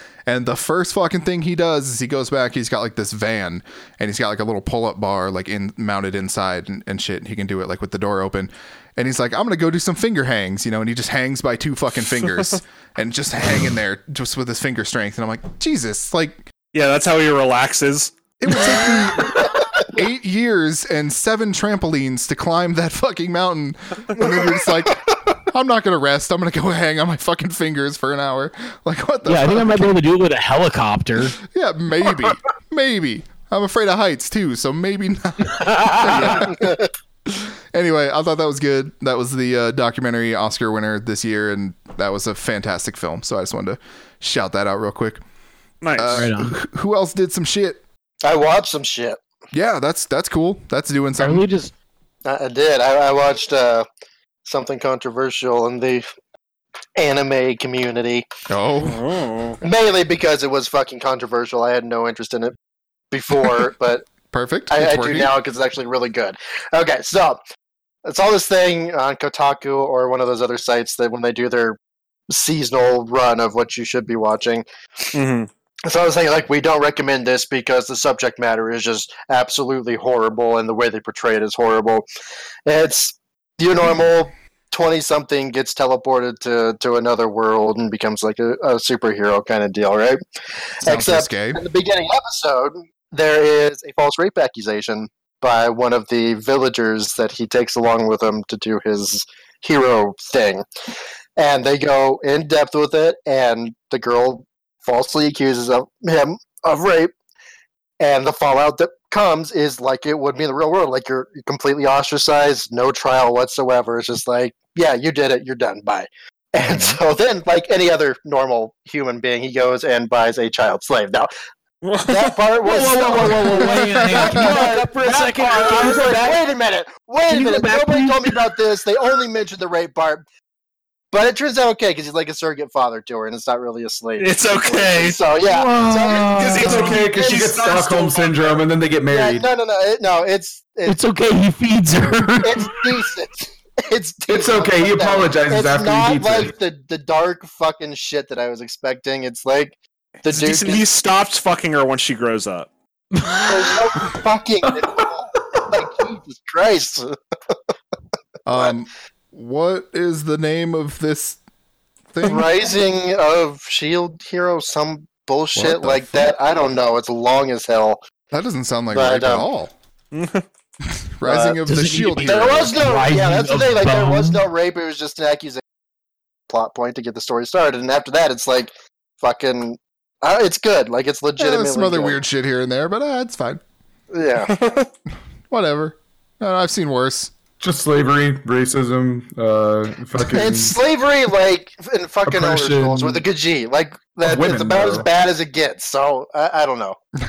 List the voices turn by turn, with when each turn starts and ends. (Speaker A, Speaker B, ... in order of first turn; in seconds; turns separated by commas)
Speaker A: 0.3-16.4, Speaker B: 16.7-18.8, Speaker A: 18.4-30.0, Speaker C: 29.2-31.4, Speaker A: 31.4-45.2, Speaker C: 35.5-36.4, Speaker D: 36.4-36.9, Speaker B: 45.8-46.3, Speaker A: 45.9-47.8, Speaker C: 46.1-46.6, Speaker D: 48.2-49.2, Speaker A: 49.5-51.4, Speaker C: 51.2-51.7, Speaker D: 52.2-53.9, Speaker D: 54.5-56.0, Speaker D: 57.0-58.3, Speaker A: 58.5-59.0, Speaker B: 58.8-59.6, Speaker D: 59.6-62.5, Speaker D: 63.1-64.0, Speaker A: 64.3-65.3, Speaker D: 64.7-67.4, Speaker D: 68.0-71.8, Speaker D: 72.3-74.6, Speaker B: 75.1-75.5, Speaker D: 75.8-82.0, Speaker D: 82.7-90.2, Speaker D: 90.8-100.6, Speaker A: 90.8-91.6, Speaker D: 101.4-107.1, Speaker D: 108.0-121.3, Speaker A: 116.6-117.0, Speaker B: 121.8-122.4, Speaker D: 122.1-130.2, Speaker C: 122.6-126.4, Speaker A: 123.6-124.5, Speaker C: 127.3-128.5, Speaker D: 131.1-137.6, Speaker B: 134.2-135.2, Speaker C: 135.5-136.8, Speaker E: 135.6-139.5, Speaker B: 136.3-138.6, Speaker D: 139.1-141.0, Speaker C: 140.8-142.8, Speaker D: 142.4-150.8, Speaker E: 144.3-146.5, Speaker B: 150.2-152.7, Speaker C: 153.1-153.8, Speaker D: 153.4-157.1, Speaker E: 154.7-155.7, Speaker A: 158.4-161.4, Speaker A: 162.1-162.5, Speaker D: 162.2-168.0, Speaker A: 165.5-166.3, Speaker A: 168.3-169.7, Speaker D: 168.9-169.5, Speaker B: 170.1-170.4, Speaker A: 170.8-172.8, Speaker D: 171.3-171.6, Speaker C: 171.6-174.4, Speaker D: 172.2-175.6, Speaker D: 176.5-182.2, Speaker A: 181.4-183.6, Speaker D: 184.1-184.5, Speaker B: 184.4-184.9, Speaker A: 185.5-187.3, Speaker E: 187.6-190.8, Speaker D: 190.3-197.0, Speaker E: 192.2-193.2, Speaker E: 194.2-195.1